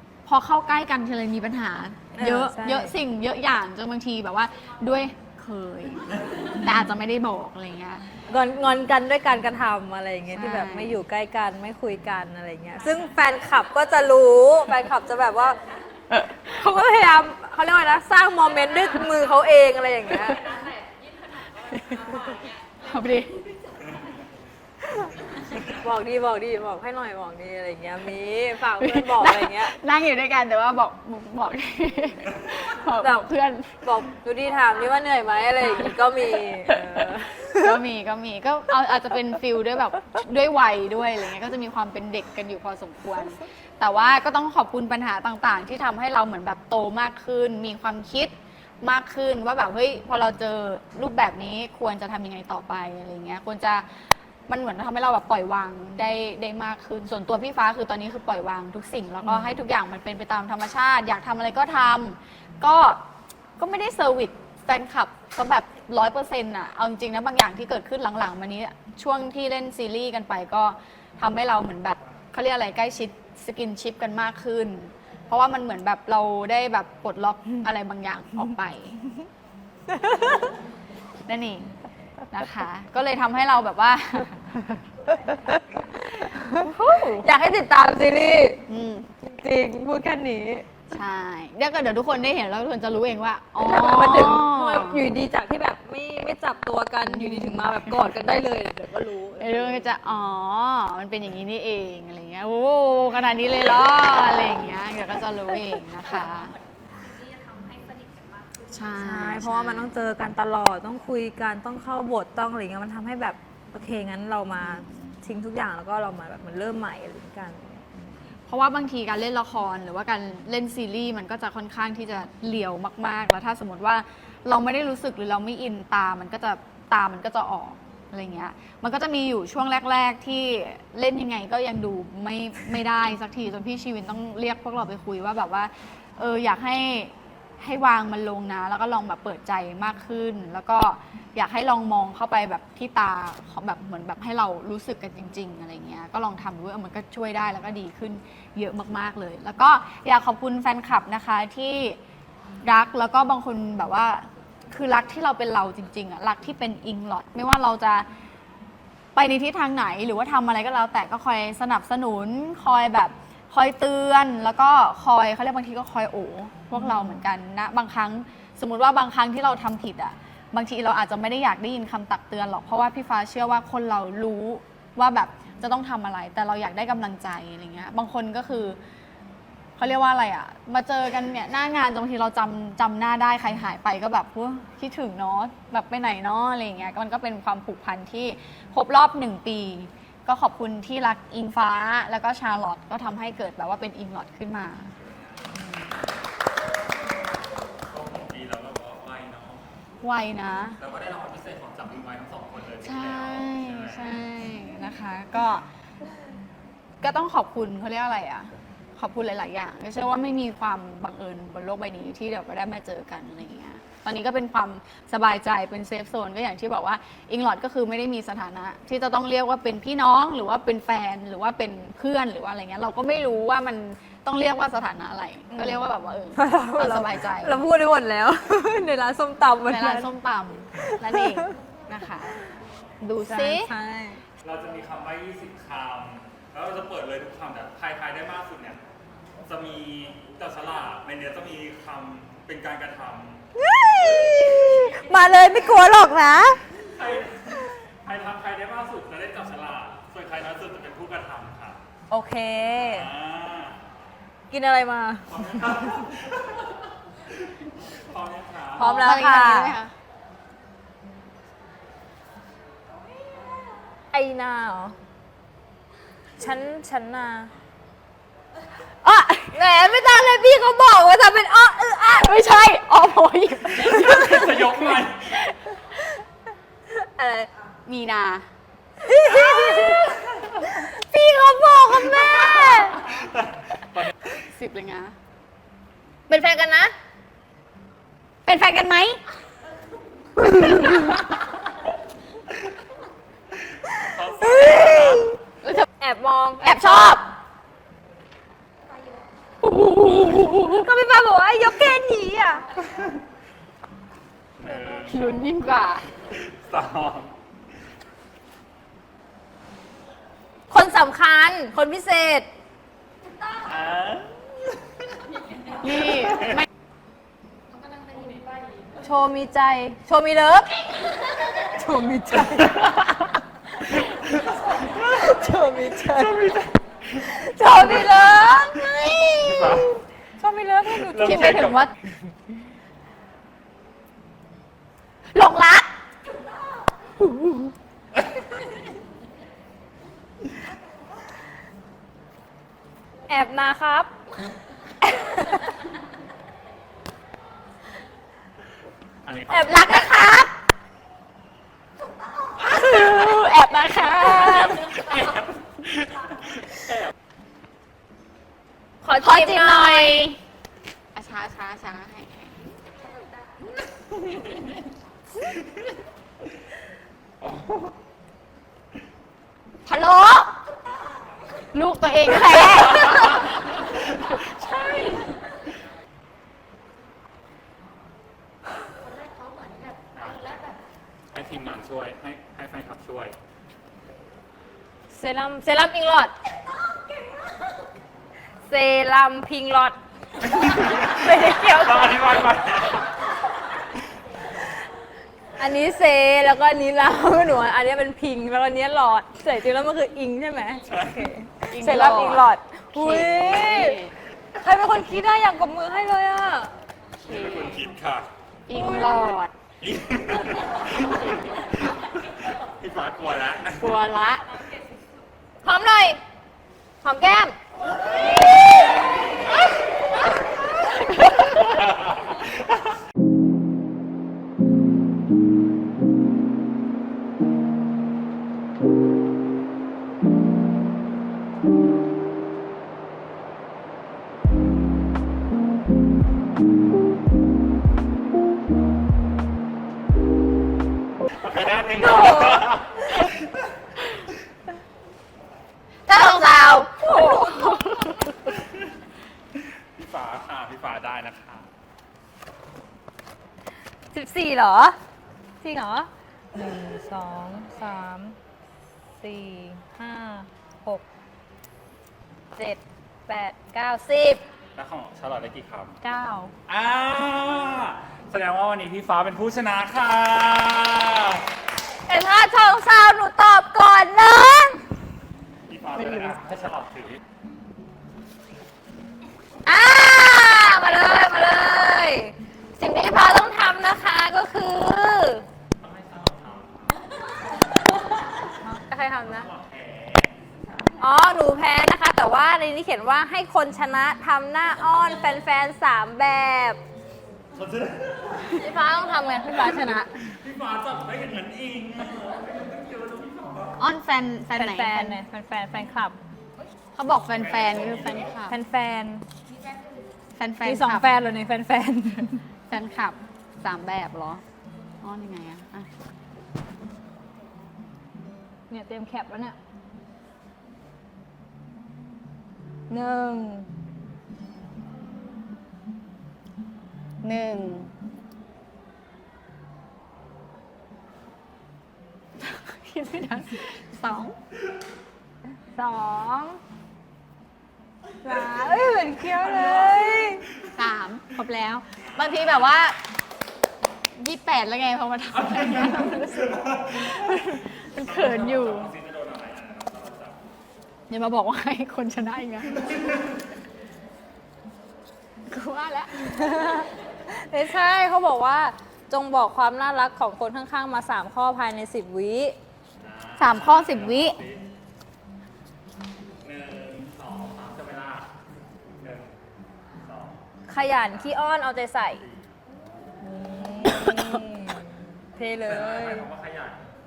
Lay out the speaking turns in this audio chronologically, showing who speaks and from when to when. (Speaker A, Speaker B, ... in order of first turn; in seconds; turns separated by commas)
Speaker A: 0.3-8.0, Speaker B: 2.2-2.9, Speaker B: 8.3-15.6, Speaker A: 10.3-11.0, Speaker B: 16.4-20.6, Speaker A: 21.7-23.4, Speaker B: 25.6-29.8, Speaker A: 28.8-33.9, Speaker B: 33.0-33.3, Speaker B: 33.8-37.8, Speaker A: 36.7-53.9, Speaker A: 54.5-63.0, Speaker B: 59.2-59.5, Speaker A: 63.6-79.0, Speaker A: 81.3-81.7, Speaker A: 82.3-84.5, Speaker B: 86.1-88.6, Speaker A: 86.4-87.3, Speaker A: 88.7-89.1, Speaker B: 89.2-90.7, Speaker A: 90.9-95.0, Speaker B: 93.6-99.9, Speaker A: 97.1-98.0, Speaker A: 99.4-106.5, Speaker A: 108.7-109.9, Speaker B: 108.9-118.0, Speaker A: 114.7-114.9, Speaker A: 118.5-152.0, Speaker A: 152.6-158.1, Speaker A: 159.2-178.8, Speaker A: 179.8-194.9, Speaker C: 197.9-199.7, Speaker A: 200.0-200.8, Speaker C: 200.8-204.2, Speaker A: 202.8-205.7, Speaker A: 207.0-227.6, Speaker B: 226.4-230.1, Speaker A: 229.7-232.4, Speaker A: 233.0-233.7, Speaker B: 233.2-234.2, Speaker C: 234.4-238.8, Speaker C: 239.5-243.4, Speaker B: 243.6-246.6, Speaker C: 246.8-251.8, Speaker B: 252.1-253.1, Speaker C: 252.8-253.8, Speaker B: 254.5-255.5, Speaker C: 255.3-258.9, Speaker B: 258.8-259.8, Speaker A: 258.8-259.9, Speaker B: 264.1-265.0, Speaker B: 266.4-267.5, Speaker A: 269.0-269.6, Speaker B: 269.5-272.4, Speaker A: 272.0-275.6, Speaker C: 273.8-275.4, Speaker B: 276.9-277.5, Speaker A: 277.9-278.5, Speaker B: 279.0-283.1, Speaker A: 282.0-282.9, Speaker C: 283.2-284.1, Speaker A: 284.3-285.1, Speaker B: 286.3-286.9, Speaker A: 288.4-289.2, Speaker B: 290.7-290.9, Speaker A: 290.9-291.1, Speaker C: 293.9-295.4, Speaker B: 294.4-295.4, Speaker B: 296.0-297.1, Speaker A: 296.6-297.3, Speaker B: 299.7-302.8, Speaker A: 299.9-300.7, Speaker C: 302.9-303.2, Speaker C: 304.6-305.4, Speaker A: 304.9-306.1, Speaker C: 306.3-307.4, Speaker B: 310.7-312.5, Speaker C: 313.6-314.8, Speaker A: 315.8-316.7, Speaker C: 316.2-316.6, Speaker B: 319.0-320.8, Speaker B: 321.5-323.0, Speaker C: 324.0-325.3, Speaker B: 324.9-326.5, Speaker C: 326.0-327.3, Speaker B: 327.2-331.9, Speaker C: 329.4-330.0, Speaker C: 330.9-331.9, Speaker A: 331.2-331.9, Speaker A: 335.3-335.9, Speaker A: 337.4-337.7, Speaker B: 343.3-344.1, Speaker C: 349.2-349.8, Speaker B: 349.5-350.1, Speaker A: 349.7-350.5, Speaker A: 352.6-355.2, Speaker C: 355.1-357.1, Speaker B: 359.0-360.4, Speaker A: 359.1-360.4, Speaker A: 361.1-362.6, Speaker C: 367.4-368.0, Speaker A: 369.9-370.6, Speaker A: 371.7-375.2, Speaker C: 380.1-380.7, Speaker C: 381.3-383.4, Speaker B: 385.1-386.3, Speaker B: 388.7-390.0, Speaker C: 390.5-393.1, Speaker B: 391.0-392.1, Speaker A: 391.5-392.0, Speaker B: 395.6-404.0, Speaker C: 400.9-401.3, Speaker A: 401.7-404.1, Speaker B: 404.6-406.7, Speaker A: 407.2-407.8, Speaker C: 407.2-408.3, Speaker A: 408.7-409.5, Speaker B: 408.7-409.2, Speaker C: 409.8-414.0, Speaker A: 413.8-414.4, Speaker B: 415.6-416.2, Speaker B: 417.0-417.6, Speaker C: 422.0-422.4, Speaker C: 441.3-443.5, Speaker B: 442.0-442.7, Speaker A: 446.1-448.1, Speaker B: 446.1-448.1, Speaker C: 449.6-451.7, Speaker B: 454.1-455.0, Speaker B: 455.6-458.4, Speaker B: 459.2-461.0, Speaker B: 462.5-464.4, Speaker C: 464.8-466.0, Speaker B: 466.0-466.5, Speaker C: 466.7-471.5, Speaker B: 472.1-474.8, Speaker C: 475.7-477.2, Speaker B: 476.0-476.3, Speaker B: 479.6-485.5, Speaker C: 485.8-487.0, Speaker B: 488.5-489.5, Speaker C: 489.2-490.9, Speaker B: 491.0-496.8, Speaker C: 497.5-498.5, Speaker B: 498.5-500.1, Speaker C: 499.9-503.8, Speaker A: 503.8-505.2, Speaker B: 504.6-506.2, Speaker A: 506.9-508.6, Speaker C: 507.3-508.3, Speaker B: 508.5-509.2, Speaker A: 510.4-511.1, Speaker B: 510.6-512.4, Speaker A: 512.7-514.4, Speaker A: 515.0-515.9, Speaker B: 518.7-519.6, Speaker B: 522.9-523.7, Speaker A: 527.2-527.9, Speaker A: 532.4-534.4, Speaker B: 535.7-536.6, Speaker B: 538.2-540.5, Speaker C: 539.4-540.4, Speaker A: 540.7-543.0, Speaker C: 542.1-542.6, Speaker A: 544.1-548.9, Speaker C: 545.4-550.4, Speaker A: 551.1-552.8, Speaker C: 552.8-553.1, Speaker A: 555.5-556.1, Speaker B: 556.2-562.6, Speaker C: 563.0-564.6, Speaker A: 563.4-564.4, Speaker C: 566.4-568.3, Speaker C: 569.0-569.3, Speaker C: 569.9-570.4, Speaker B: 570.7-572.2, Speaker C: 572.2-572.5, Speaker B: 573.2-576.2, Speaker C: 575.7-576.9